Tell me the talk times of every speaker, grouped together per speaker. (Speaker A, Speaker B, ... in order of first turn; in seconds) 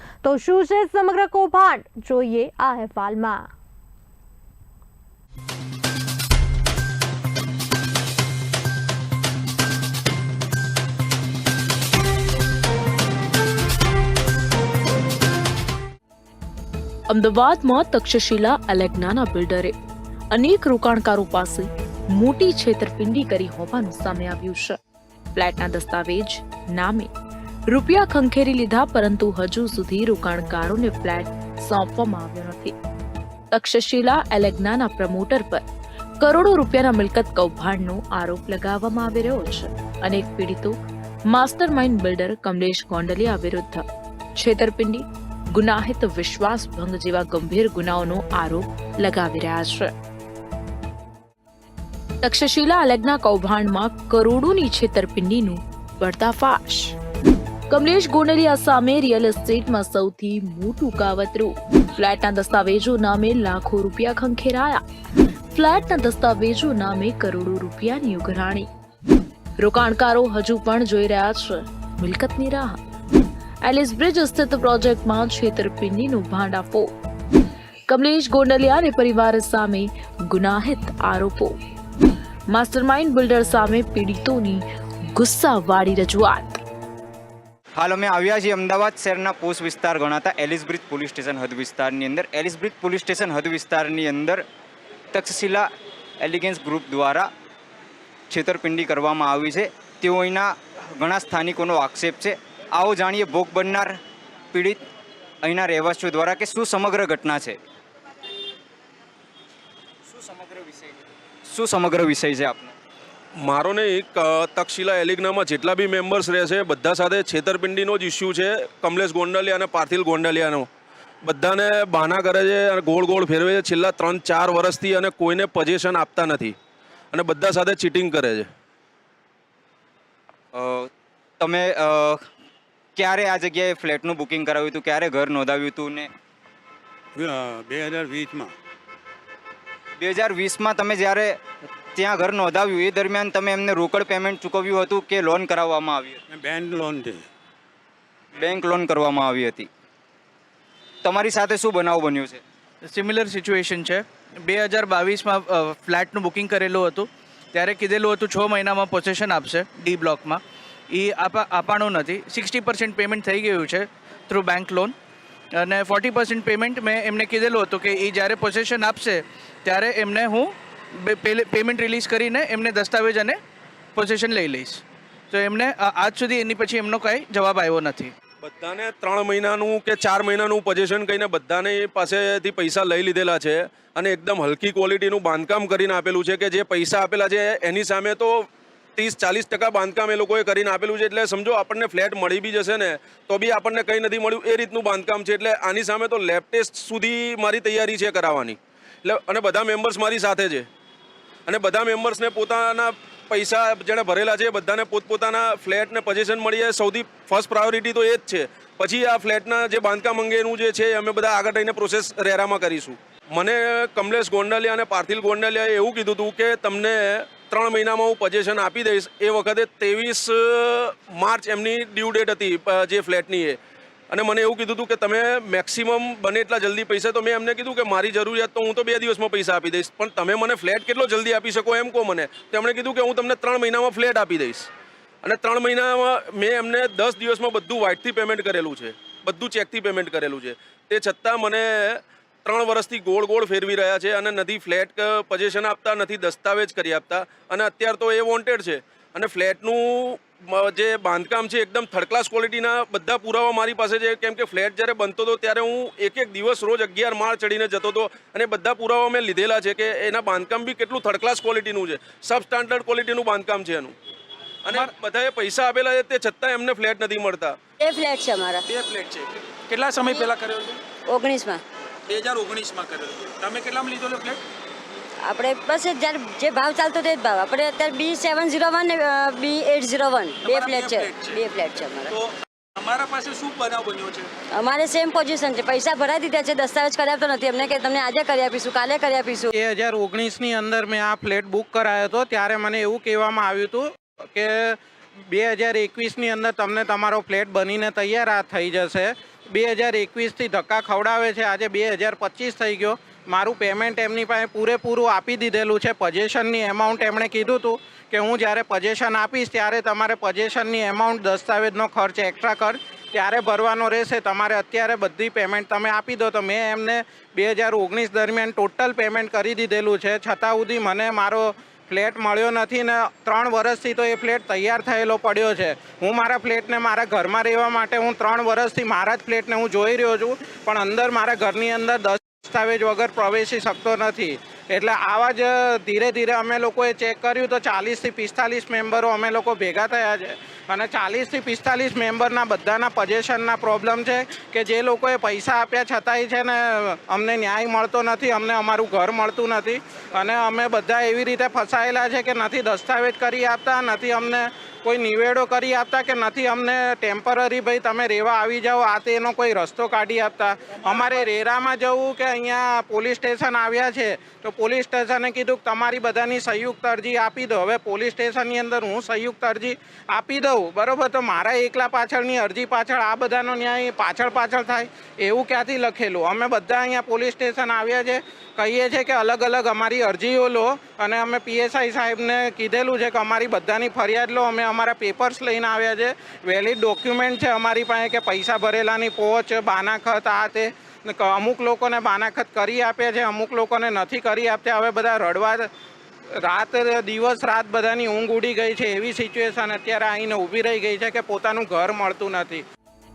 Speaker A: 0.2-3.5
Speaker B: 17.1-19.7, 20.3-24.8, 25.4-27.1, 27.7-32.7, 33.5-35.6, 36.2-40.7, 41.3-43.8, 44.4-49.9, 52.2-57.0, 57.7-64.8, 65.5-68.7, 69.6-72.8, 73.6-76.9, 77.9-81.5, 82.5-84.6, 85.1-86.6
Speaker C: 87.8-94.4, 95.1-95.7, 96.2-97.3, 98.3-104.0, 104.5-104.8, 105.4-107.6, 110.1-110.9, 111.5-112.7, 130.5-132.2, 132.9-136.1, 140.0-141.4, 141.9-146.2, 148.4-149.7, 151.0-152.4
Speaker D: 113.4-120.7, 121.2-126.5, 127.1-128.5, 178.4-200.7, 201.5-223.6, 224.1-234.7, 235.2-263.9, 264.6-267.6
Speaker E: 137.2-138.5, 146.3-147.2
Speaker F: 152.8-164.9, 165.6-173.4, 173.9-178.1
Speaker G: 267.8-268.7, 270.0-270.3, 271.1-271.6, 275.2-282.1, 284.5-289.5
Speaker H: 268.6-270.8, 272.1-274.4, 280.4-281.4, 282.0-284.3
Speaker I: 289.5-294.8, 295.3-395.7, 396.4-402.6